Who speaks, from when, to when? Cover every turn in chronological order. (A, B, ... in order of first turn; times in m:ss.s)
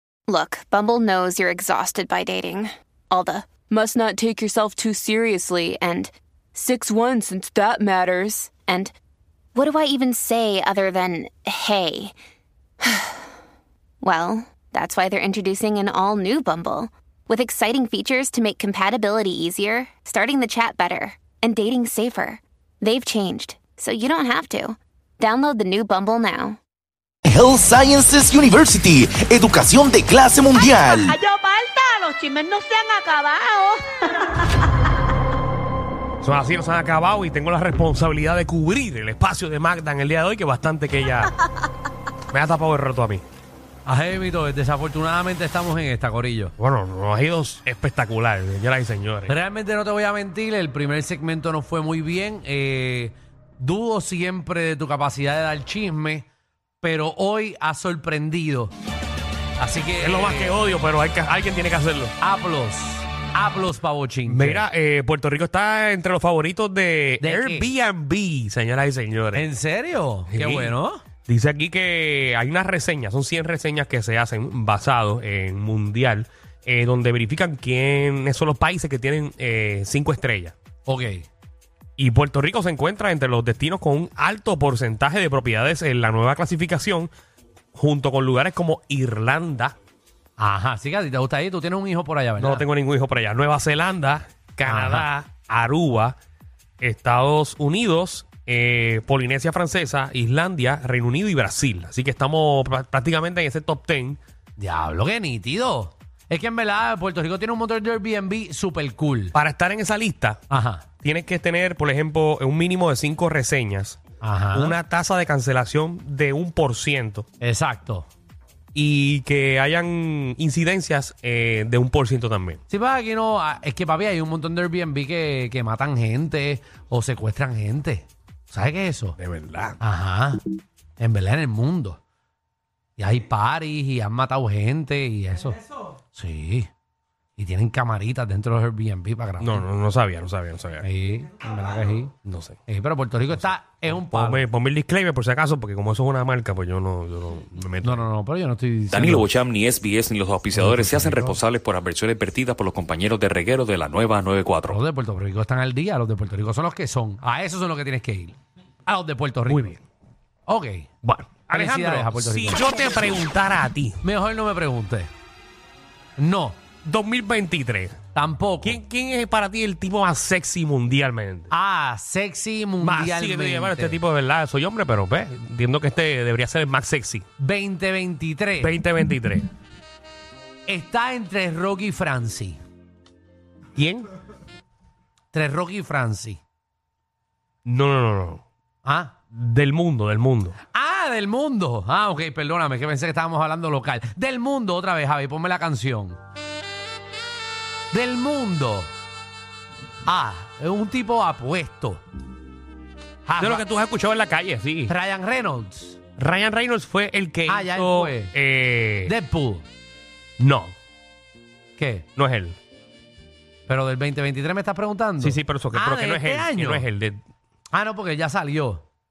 0:00.3-0:08.9 A
0:09.5-0:12.1 A
0:12.8-0:13.2 A
0:14.0-0:26.6 A
0:27.3-0:31.2 B
0:30.5-0:33.8 C
0:36.2-0:41.3 D
0:42.3-0:43.2 D
0:43.8-0:46.5 E
0:46.6-0:49.3 D
0:49.3-0:56.3 E
0:56.8-0:58.7 E
0:59.6-1:00.6 E
1:00.0-1:02.1 D
1:02.2-1:04.6 E
1:04.2-1:09.5 D
1:07.2-1:07.7 E
1:09.3-1:11.0 E
1:10.3-1:10.7 D
1:11.2-1:20.5 D
1:20.8-1:21.3 E
1:22.0-1:27.1 D
1:27.7-1:29.7 D
1:30.4-1:32.6 E
1:32.4-1:36.2 D
1:34.6-1:35.1 E
1:36.8-1:44.2 D
1:44.6-1:49.3 E
1:49.3-1:50.4 D
1:50.5-1:50.8 E
1:51.0-1:57.2 D
1:54.2-1:54.8 E
1:57.4-1:58.1 E
1:58.7-2:02.6 D
2:02.7-2:09.2 E
2:09.2-2:09.8 D
2:09.8-2:10.4 E
2:11.0-2:12.0 E
2:13.0-2:15.6 E
2:16.1-2:16.7 E
2:17.4-2:19.6 E
2:19.4-2:20.8 D
2:20.8-2:22.1 E
2:22.2-2:22.6 D
2:22.7-2:24.4 E
2:23.3-2:28.0 D
2:27.8-2:29.3 E
2:28.9-2:34.8 F
2:30.5-2:31.4 E
2:34.7-2:39.7 E
2:39.5-2:39.8 D
2:40.5-2:40.9 E
2:41.0-2:44.0 D
2:41.5-2:42.7 E
2:44.0-2:45.1 E
2:46.2-2:46.6 E
2:46.8-2:48.0 D
2:48.1-2:48.8 E
2:48.6-2:51.5 D
2:51.5-2:54.0 E
2:52.8-2:57.2 D
2:57.4-2:58.8 E
2:58.6-2:59.5 D
3:00.7-3:02.6 E
3:03.8-3:04.1 D
3:05.3-3:06.4 E
3:07.6-3:08.4 D
3:08.8-3:09.1 E
3:09.3-3:10.6 D
3:10.7-3:16.2 E
3:17.9-3:18.9 E
3:20.0-3:22.0 E
3:23.2-3:23.6 E
3:23.4-3:24.9 D
3:24.9-3:26.0 E
3:26.2-3:29.1 D
3:27.4-3:28.3 E
3:29.0-3:29.6 E
3:30.4-3:30.7 D
3:31.8-3:32.0 E
3:32.2-3:32.6 D
3:33.7-3:36.9 E
3:35.2-3:37.2 D
3:37.7-3:38.8 E